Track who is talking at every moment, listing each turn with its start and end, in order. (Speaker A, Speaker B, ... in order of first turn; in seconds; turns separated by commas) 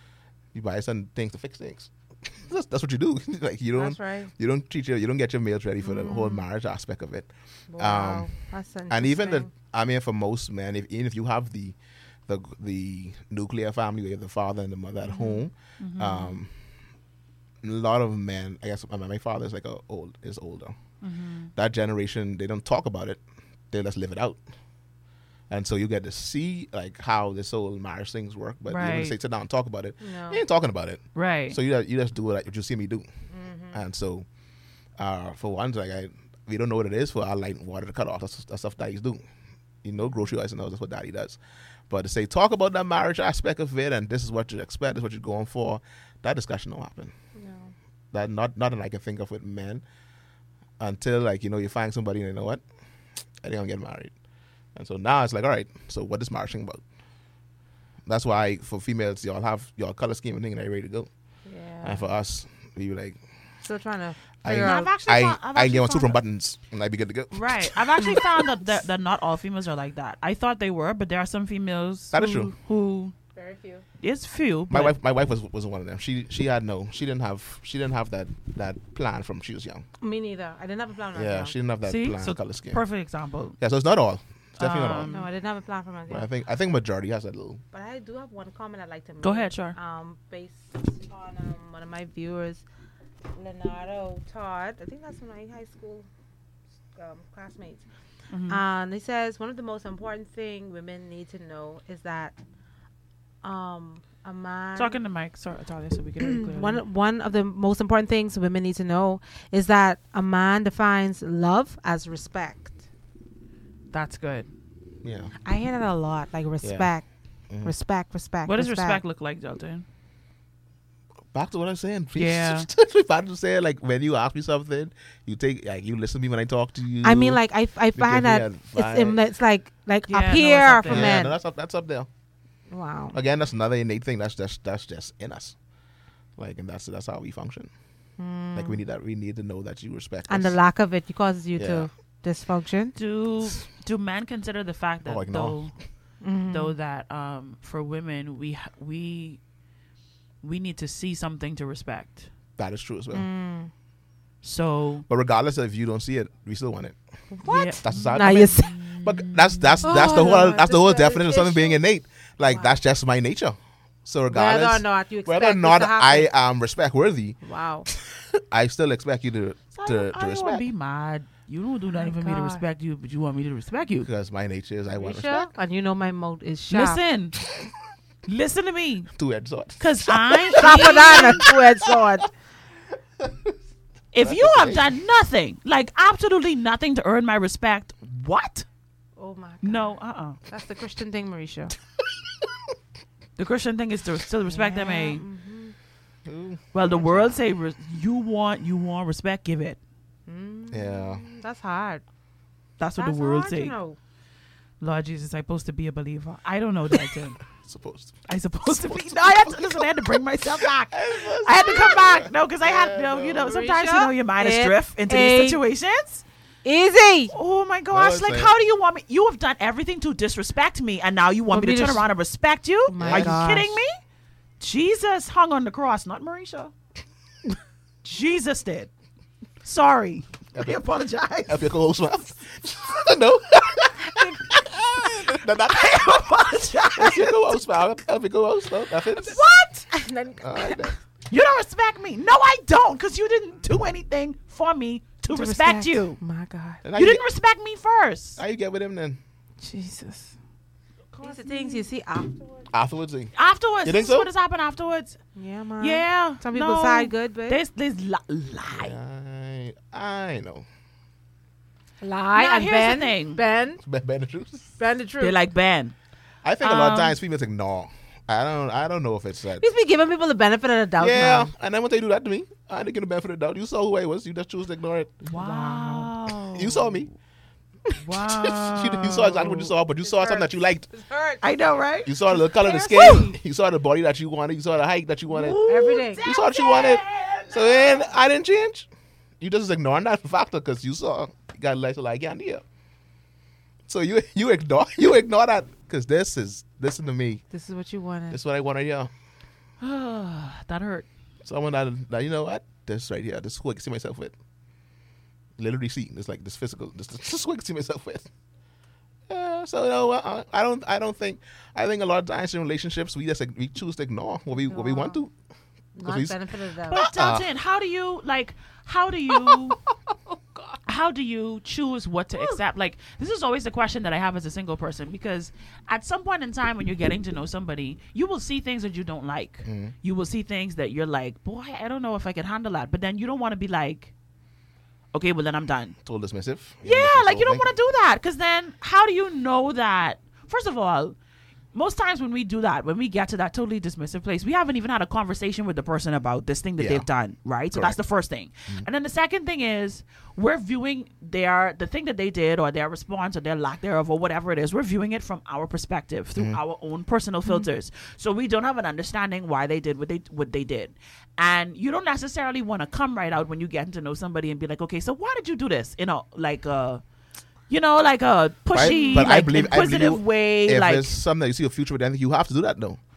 Speaker A: 0.5-8.3, Speaker B: 3.8-4.3, Speaker B: 5.8-6.4, Speaker B: 7.7-9.5, Speaker A: 8.9-11.8, Speaker A: 12.3-16.5, Speaker B: 15.0-15.4, Speaker C: 15.8-16.4, Speaker A: 17.6-20.8, Speaker C: 21.0-21.5, Speaker A: 21.5-24.4, Speaker A: 25.5-33.0, Speaker C: 28.7-29.1, Speaker B: 30.0-30.4, Speaker C: 31.1-31.6, Speaker B: 33.3-33.8, Speaker A: 33.7-34.2, Speaker A: 35.0-39.2, Speaker A: 39.8-47.1, Speaker B: 47.4-47.7, Speaker A: 48.1-49.8, Speaker A: 50.8-52.6, Speaker A: 53.4-54.1, Speaker A: 54.7-56.8, Speaker A: 58.0-61.1, Speaker B: 61.5-62.1, Speaker A: 61.8-63.2, Speaker B: 63.6-64.9, Speaker A: 64.4-68.5, Speaker C: 64.5-66.2, Speaker C: 67.3-73.1, Speaker A: 72.1-72.5, Speaker B: 73.3-73.8, Speaker C: 74.0-74.9, Speaker A: 74.7-79.8, Speaker B: 80.0-81.5, Speaker A: 81.1-82.8, Speaker C: 81.8-83.5, Speaker A: 83.6-85.1, Speaker C: 84.6-85.3, Speaker B: 85.1-86.3, Speaker A: 86.1-87.6, Speaker B: 87.7-92.6, Speaker C: 89.2-89.8, Speaker B: 93.3-96.1, Speaker B: 96.9-97.8, Speaker C: 98.3-98.6, Speaker B: 98.5-102.3, Speaker B: 103.4-105.0, Speaker C: 104.8-106.8, Speaker B: 106.2-112.8, Speaker C: 113.9-114.5, Speaker A: 115.0-115.3, Speaker B: 115.4-117.1, Speaker A: 116.6-116.9, Speaker B: 117.6-119.0, Speaker C: 118.5-119.8, Speaker A: 121.3-127.4, Speaker C: 122.1-122.7, Speaker B: 127.0-131.3, Speaker A: 127.9-129.2, Speaker C: 130.1-131.2, Speaker A: 130.9-132.1, Speaker B: 132.7-133.2, Speaker A: 133.1-135.6, Speaker A: 136.4-137.7, Speaker B: 138.2-138.8, Speaker A: 138.5-140.6, Speaker B: 140.3-142.9, Speaker A: 141.6-141.9, Speaker C: 142.9-145.7, Speaker A: 145.1-145.6, Speaker B: 146.2-146.7, Speaker C: 146.5-149.4, Speaker C: 150.4-152.3, Speaker A: 152.6-153.2, Speaker B: 153.1-153.7, Speaker C: 154.4-155.0, Speaker A: 155.1-157.0, Speaker B: 157.3-158.8, Speaker C: 157.4-160.5, Speaker A: 157.8-167.4, Speaker B: 159.8-161.8, Speaker B: 162.4-162.7, Speaker B: 164.3-166.3, Speaker B: 167.4-167.9, Speaker A: 167.9-170.6, Speaker C: 169.7-174.1, Speaker B: 171.9-172.6, Speaker A: 174.0-175.5, Speaker B: 174.9-177.0, Speaker C: 176.7-177.4, Speaker C: 178.2-179.1, Speaker A: 179.1-181.6, Speaker C: 179.8-181.4, Speaker B: 180.6-182.3, Speaker A: 183.2-183.5, Speaker C: 184.1-188.7, Speaker A: 184.2-184.9, Speaker B: 189.2-189.9, Speaker C: 189.6-190.4, Speaker B: 190.5-191.7, Speaker C: 193.4-195.2, Speaker B: 194.5-195.7, Speaker A: 196.2-197.4, Speaker C: 196.7-199.8, Speaker B: 200.3-202.0, Speaker A: 200.7-201.2, Speaker C: 202.8-203.7, Speaker B: 203.0-204.0, Speaker C: 204.8-207.4, Speaker A: 207.6-213.6, Speaker C: 208.3-216.2, Speaker B: 213.4-215.6, Speaker B: 216.6-217.3, Speaker C: 217.3-223.9, Speaker A: 217.9-218.5, Speaker B: 221.5-222.1, Speaker B: 222.9-223.8, Speaker A: 223.0-223.6, Speaker C: 224.6-226.7, Speaker C: 228.0-228.9, Speaker C: 229.6-231.7, Speaker A: 230.5-230.8, Speaker A: 231.4-239.4, Speaker C: 235.7-237.4, Speaker B: 239.2-240.9, Speaker A: 240.4-241.0, Speaker C: 241.3-246.2, Speaker B: 245.3-246.8, Speaker A: 246.8-247.2, Speaker C: 246.9-248.4, Speaker A: 248.4-249.2, Speaker B: 249.6-250.3, Speaker C: 251.1-251.9, Speaker B: 251.2-252.7, Speaker A: 252.7-253.3, Speaker C: 253.3-255.2, Speaker A: 253.8-254.3, Speaker B: 255.3-257.6, Speaker C: 255.8-258.9, Speaker A: 258.7-260.6, Speaker B: 262.0-263.8, Speaker C: 262.3-263.4, Speaker A: 263.8-264.7, Speaker B: 264.8-265.4, Speaker C: 265.2-265.9, Speaker A: 266.4-269.6, Speaker C: 266.6-267.2, Speaker B: 269.6-271.5, Speaker A: 271.0-275.3, Speaker C: 275.3-277.1, Speaker B: 275.3-276.1, Speaker A: 276.5-277.1, Speaker C: 278.0-279.7, Speaker A: 278.2-280.9, Speaker B: 280.0-281.4, Speaker C: 281.4-283.4, Speaker A: 282.0-285.6, Speaker C: 285.3-288.1, Speaker B: 285.6-286.2, Speaker A: 286.2-288.9, Speaker A: 289.4-292.6, Speaker A: 293.9-297.4, Speaker B: 297.5-298.4, Speaker A: 298.3-299.1, Speaker C: 299.8-301.1, Speaker A: 301.4-304.3, Speaker A: 305.6-308.3, Speaker A: 309.3-315.3, Speaker B: 314.5-315.2, Speaker B: 315.9-317.1, Speaker A: 316.0-316.4, Speaker A: 316.9-317.5, Speaker C: 316.9-319.8, Speaker C: 320.9-334.1, Speaker A: 329.6-329.9, Speaker C: 335.1-336.0, Speaker A: 336.0-337.6, Speaker C: 336.8-341.1, Speaker C: 341.7-367.0, Speaker A: 346.8-347.1, Speaker A: 347.7-348.0, Speaker C: 367.7-371.1, Speaker A: 368.7-373.0, Speaker B: 368.8-369.3